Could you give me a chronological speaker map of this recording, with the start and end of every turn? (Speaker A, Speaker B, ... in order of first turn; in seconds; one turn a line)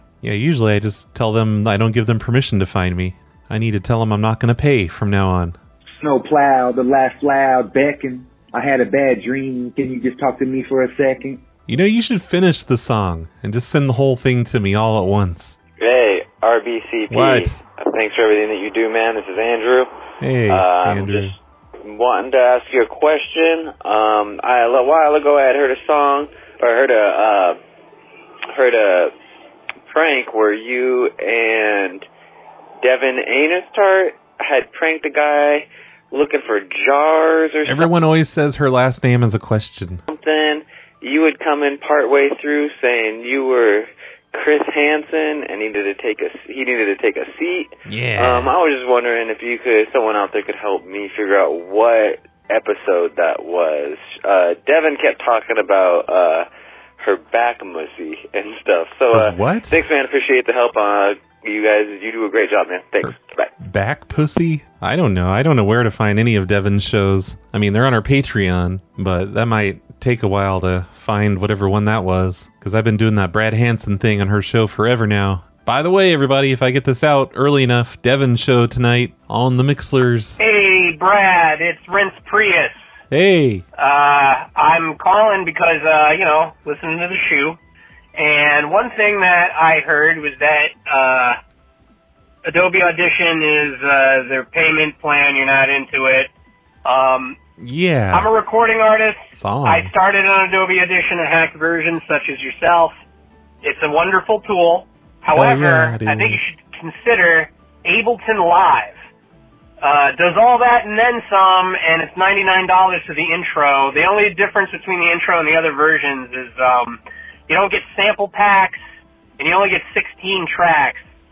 Speaker A: 0.2-5.6
Speaker B: 6.0-11.4
Speaker A: 11.7-15.6
Speaker C: 15.8-19.9
Speaker A: 17.1-17.6
Speaker A: 20.2-21.4
Speaker C: 20.5-27.6
Speaker C: 28.5-29.1
Speaker C: 29.9-32.0
Speaker C: 32.8-37.9
Speaker A: 37.6-40.0
Speaker C: 40.1-56.5
Speaker A: 47.9-48.5
Speaker C: 57.0-63.5
Speaker A: 59.1-59.8
Speaker A: 63.0-80.4
Speaker D: 80.4-82.8
Speaker A: 83.1-83.6
Speaker D: 83.8-87.6
Speaker D: 88.2-91.4
Speaker D: 92.5-96.3
Speaker D: 96.8-97.4
Speaker A: 97.6-98.3
Speaker D: 98.1-102.9
Speaker A: 99.3-99.9
Speaker D: 103.6-109.0
Speaker A: 105.3-106.5
Speaker D: 109.8-118.8
Speaker D: 119.4-121.0